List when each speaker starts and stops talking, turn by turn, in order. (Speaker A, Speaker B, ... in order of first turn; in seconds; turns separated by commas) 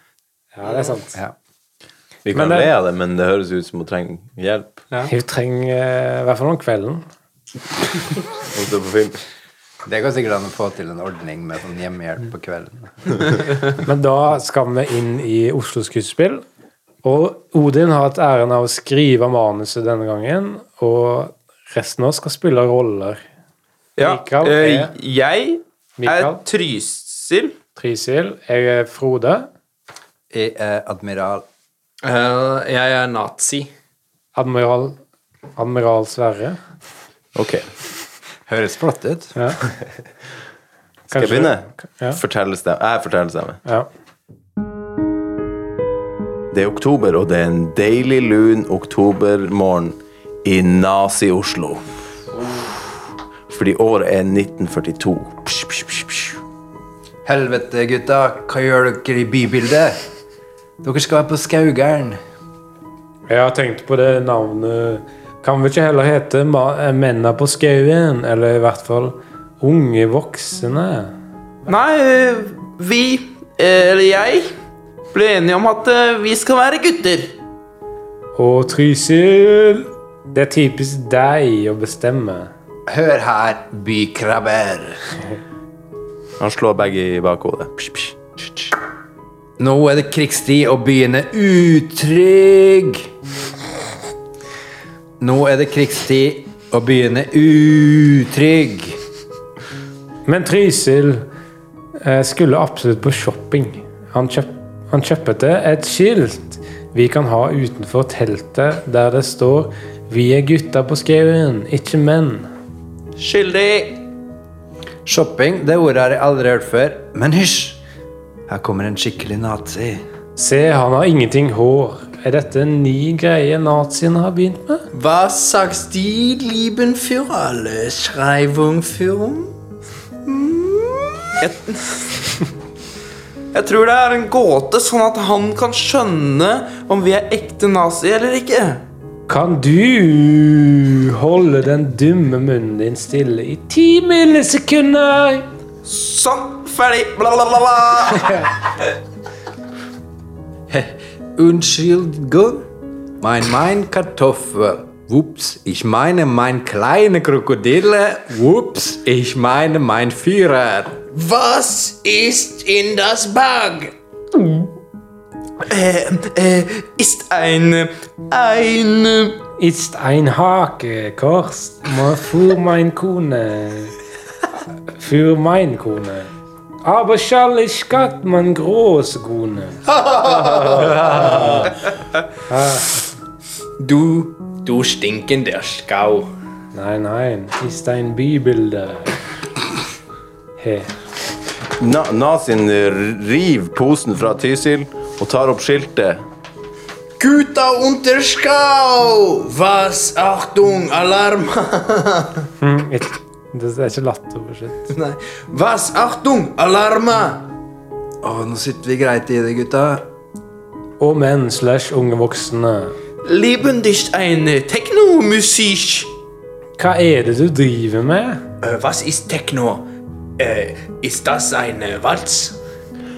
Speaker A: 0.6-1.2, Speaker B: 2.3-4.8, Speaker A: 2.3-2.7, Speaker A: 5.0-7.0, Speaker B: 8.5-9.2, Speaker C: 9.9-13.2, Speaker A: 13.8-16.4, Speaker A: 17.0-23.2, Speaker D: 24.0-27.6, Speaker A: 24.0-24.9, Speaker A: 26.0-26.4, Speaker A: 27.8-29.5, Speaker C: 30.3-31.4, Speaker E: 32.0-33.7, Speaker A: 34.4-35.0, Speaker A: 35.6-36.6, Speaker B: 37.4-37.7, Speaker C: 38.5-39.3, Speaker A: 41.1-42.2, Speaker B: 41.1-43.6, Speaker B: 46.5-51.9, Speaker B: 53.5-56.4, Speaker C: 57.2-60.0, Speaker C: 60.8-62.2, Speaker A: 63.3-71.1, Speaker D: 71.7-74.5, Speaker D: 75.1-77.3, Speaker A: 78.4-82.5, Speaker C: 82.9-85.0, Speaker B: 86.4-88.2, Speaker C: 89.6-93.1, Speaker C: 95.2-99.0, Speaker A: 100.3-101.3, Speaker A: 102.0-112.5, Speaker D: 113.2-114.0, Speaker C: 115.1-117.8, Speaker C: 118.5-120.0, Speaker A: 120.4-124.8, Speaker E: 124.9-129.5, Speaker E: 130.3-131.3, Speaker D: 131.4-132.4, Speaker D: 133.5-138.8, Speaker A: 139.3-145.5, Speaker D: 145.8-148.5, Speaker C: 150.7-152.7, Speaker C: 153.2-161.0, Speaker D: 161.1-164.7, Speaker D: 165.6-169.4, Speaker A: 169.6-173.9, Speaker A: 175.0-176.3, Speaker A: 176.8-181.7, Speaker E: 180.0-181.7, Speaker A: 182.5-183.1, Speaker E: 183.8-186.3, Speaker A: 186.7-189.2, Speaker A: 190.6-190.9, Speaker B: 191.8-196.2, Speaker E: 197.2-202.4, Speaker A: 202.6-204.9, Speaker E: 204.9-207.5, Speaker C: 208.2-210.1, Speaker A: 211.0-212.9, Speaker D: 213.2-216.1, Speaker A: 216.8-218.4, Speaker E: 218.6-219.8, Speaker E: 220.4-222.5